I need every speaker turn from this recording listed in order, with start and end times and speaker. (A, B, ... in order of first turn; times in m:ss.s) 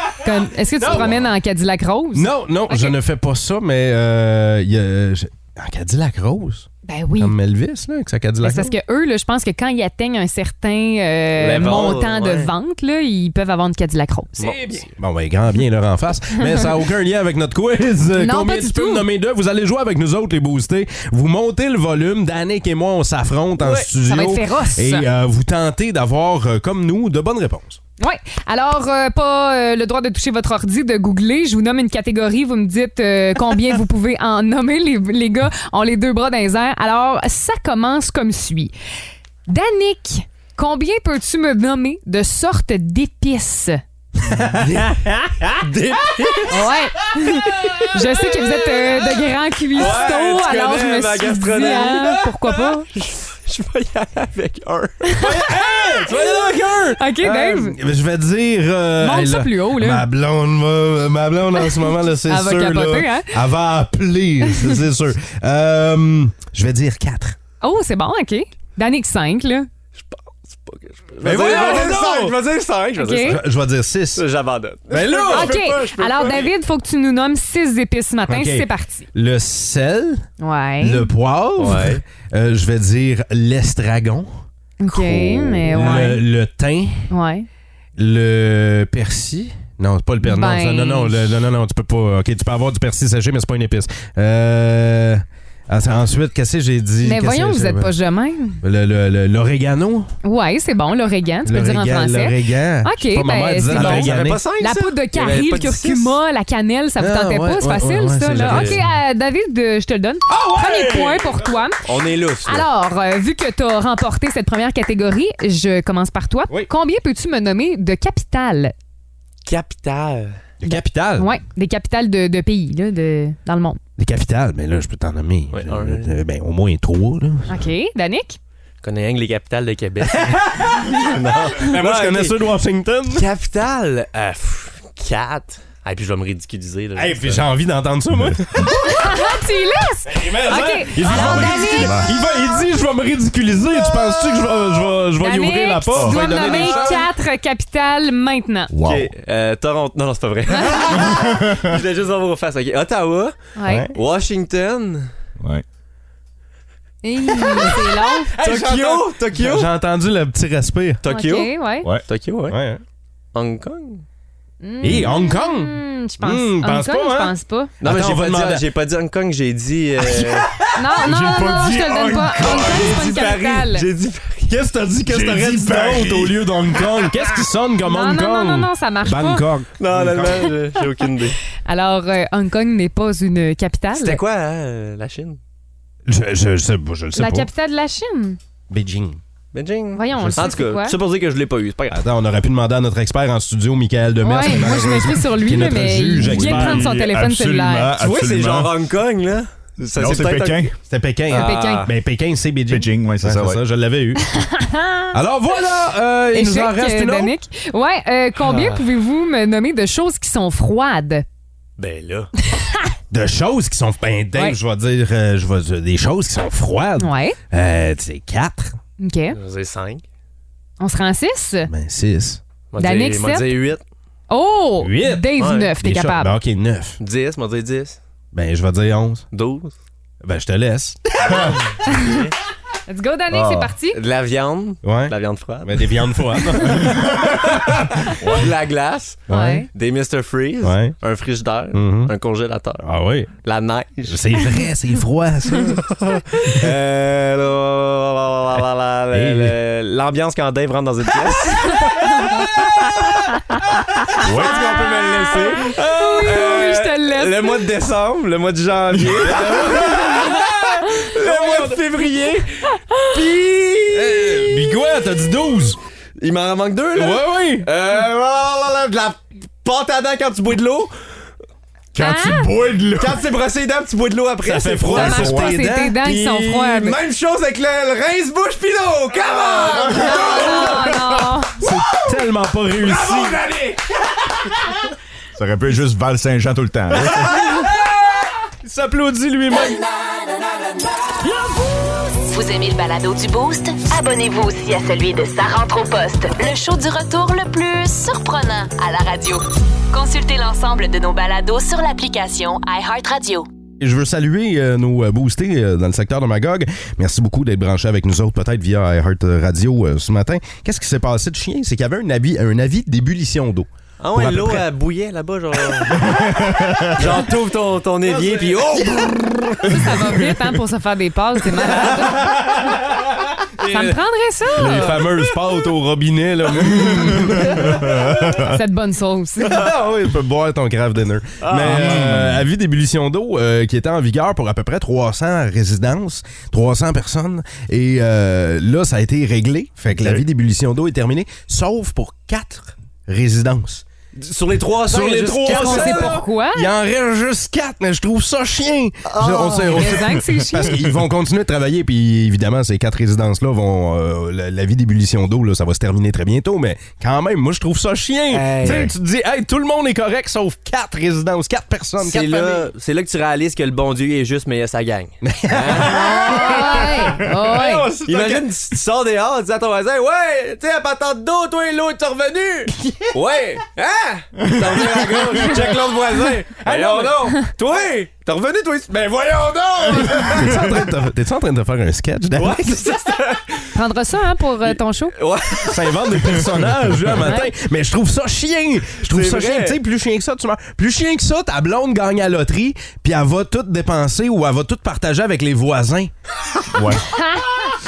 0:00.2-0:02.9 A
0:00.8-0:01.3 B
0:02.1-0:08.8 B
0:06.8-0:07.3 A
0:08.4-0:14.4 A
0:11.4-0:12.5 C
0:14.4-0:14.9 C
0:14.4-0:27.8 B
0:18.2-0:19.0 A
0:23.6-0:25.1 A
0:28.0-0:38.7 A
0:39.5-0:43.8 A
0:44.3-0:45.7 B
0:45.6-0:46.7 C
0:46.5-0:52.9 A
0:47.6-0:48.2 B
0:49.8-0:52.2 C
0:51.7-0:52.2 B
0:52.9-0:55.3 C
0:55.2-1:07.4 B
0:56.0-0:56.7 C
0:57.0-0:57.8 A
0:59.0-1:00.0 A
1:01.6-1:03.3 A
1:04.4-1:04.8 A
1:07.6-1:09.7 A
1:10.0-1:13.4 C
1:11.2-1:12.4 B
1:11.5-1:11.9 A
1:13.0-1:13.4 A
1:13.2-1:14.2 B
1:14.1-1:16.5 C
1:14.9-1:15.6 B
1:15.3-1:19.1 A
1:18.3-1:20.3 B
1:20.4-1:21.1 A
1:20.8-1:27.1 B
1:21.6-1:22.0 C
1:24.8-1:26.2 A
1:25.7-1:26.0 C
1:27.1-1:27.5 A
1:28.0-1:37.9 B
1:30.2-1:31.3 A
1:37.0-1:38.6 A
1:38.6-1:40.1 B
1:40.2-1:51.8 A
1:41.4-1:44.4 B
1:43.7-1:46.1 C
1:47.0-1:48.8 B
1:48.4-1:48.8 C
1:50.3-1:51.6 B
1:51.8-1:52.7 C
1:52.4-1:58.7 A
1:59.4-2:00.4 C
2:00.6-2:01.3 B
2:00.7-2:03.8 A
2:04.0-2:07.6 B
2:05.5-2:06.2 C
2:07.5-2:08.4 A
2:08.8-2:12.4 C
2:10.0-2:11.1 B
2:11.6-2:13.2 B
2:13.1-2:17.4 C
2:16.9-2:19.3 B
2:18.9-2:22.1 A
2:20.0-2:27.1 B
2:21.1-2:22.1 D
2:25.2-2:28.7 A
2:25.9-2:26.8 D
2:28.7-2:29.1 D
2:28.8-2:33.4 C
2:31.0-2:31.5 D
2:33.6-2:33.9 A
2:33.7-2:33.9 B
2:33.9-2:35.1 C
2:35.4-2:35.6 D
2:37.0-2:38.3 A
2:37.3-2:39.7 C
2:38.4-2:41.0 B
2:41.0-2:41.5 C
2:41.1-2:41.9 A
2:42.0-2:42.6 C
2:42.5-2:42.8 B
2:43.3-2:44.0 C
2:44.6-2:47.7 A
2:44.8-2:48.7 B
2:47.8-2:50.5 C
2:50.7-2:53.9 A
2:51.0-2:51.5 B
2:51.1-2:52.3 D
2:52.1-2:54.5 C
2:54.5-3:00.6 B
2:55.1-2:57.3 D
2:57.8-2:59.4 A
2:59.8-3:01.4 C
3:01.6-3:04.2 A
3:03.9-3:05.4 C
3:06.1-3:07.5 B
3:07.1-3:08.4 A
3:08.7-3:09.2 B
3:09.5-3:12.0 C
3:09.9-3:10.9 A
3:10.1-3:10.4 B
3:11.9-3:16.9 B
3:14.2-3:17.9 A
3:16.0-3:18.7 D
3:18.0-3:20.7 C
3:19.9-3:20.7 D
3:20.8-3:24.2 B
3:21.3-3:21.9 C
3:21.3-3:21.9 A
3:22.7-3:23.6 D
3:24.4-3:25.1 A
3:25.1-3:27.3 B
3:26.3-3:31.2 A
3:28.4-3:28.8 C
3:31.8-3:32.3 C
3:32.5-3:32.9 A
3:33.1-3:38.8 B
3:37.0-3:37.4 A
3:39.0-3:39.4 A
3:39.3-3:40.0 C
3:40.8-3:41.7 A
3:41.7-3:42.4 B
3:42.7-3:43.8 C
3:42.8-3:43.5 A
3:44.3-3:46.3 A
3:44.8-3:47.0 B
3:45.4-3:45.7 C
3:47.0-3:48.0 C
3:48.3-3:49.2 B
3:49.3-3:49.7 C
3:50.2-3:51.6 B
3:51.3-3:52.3 C
3:52.9-3:54.0 A
3:53.4-4:02.8 C
3:54.8-3:58.4 B
3:59.3-3:59.6 B
3:59.3-3:59.7 A
4:00.6-4:00.9 B
4:01.7-4:02.1 B
4:02.8-4:03.3 B
4:03.4-4:04.2 C
4:04.0-4:05.8 B
4:05.8-4:13.1 C
4:09.1-4:09.6 B
4:11.6-4:12.4 A
4:14.2-4:15.5 D
4:14.3-4:24.7 C
4:14.4-4:17.7 A
4:18.9-4:19.3 D
4:19.1-4:21.8 B
4:19.9-4:20.3 A
4:22.7-4:23.2 A
4:23.9-4:25.8 B
4:26.2-4:30.9 C
4:26.9-4:27.7 B
4:32.0-4:33.2 D
4:32.0-4:32.5 A
4:33.0-4:35.5 C
4:34.4-4:36.8 B
4:34.9-4:37.0 A
4:36.5-4:42.0 C
4:39.5-4:41.6 A
4:41.6-4:43.4 B
4:42.8-4:43.8 C
4:45.4-4:47.4 D
4:47.1-4:47.7 B
4:48.6-4:49.8 B
4:52.3-5:03.5 E
5:03.8-5:14.7 B
5:14.0-5:19.8 C
5:15.9-5:17.2 B
5:18.0-5:19.1 B
5:19.6-5:22.4 A
5:22.0-5:23.3 B
5:23.6-5:23.9 C
5:23.6-5:25.0 A
5:24.6-5:28.5 B
5:27.1-5:28.4 D
5:27.4-5:29.6 A
5:29.4-5:43.8 B
5:31.4-5:32.2 C
5:31.6-5:32.4 D
5:44.2-5:46.2 C
5:44.8-6:02.7 B
5:45.4-5:46.7 A
5:49.0-5:49.9 C
5:49.4-5:50.8 A
5:58.3-5:58.9 C
6:02.0-6:06.9 C
6:05.2-6:06.3 B
6:05.9-6:07.9 A
6:06.2-6:08.5 D
6:08.0-6:20.7 C
6:14.6-6:15.5 D
6:16.6-6:17.3 B
6:19.9-6:23.0 B
6:22.4-6:23.7 C
6:23.7-6:25.1 A
6:24.6-6:26.5 C
6:25.6-6:36.1 B
6:27.2-6:27.5 A
6:29.0-6:29.8 C
6:36.7-6:37.2 D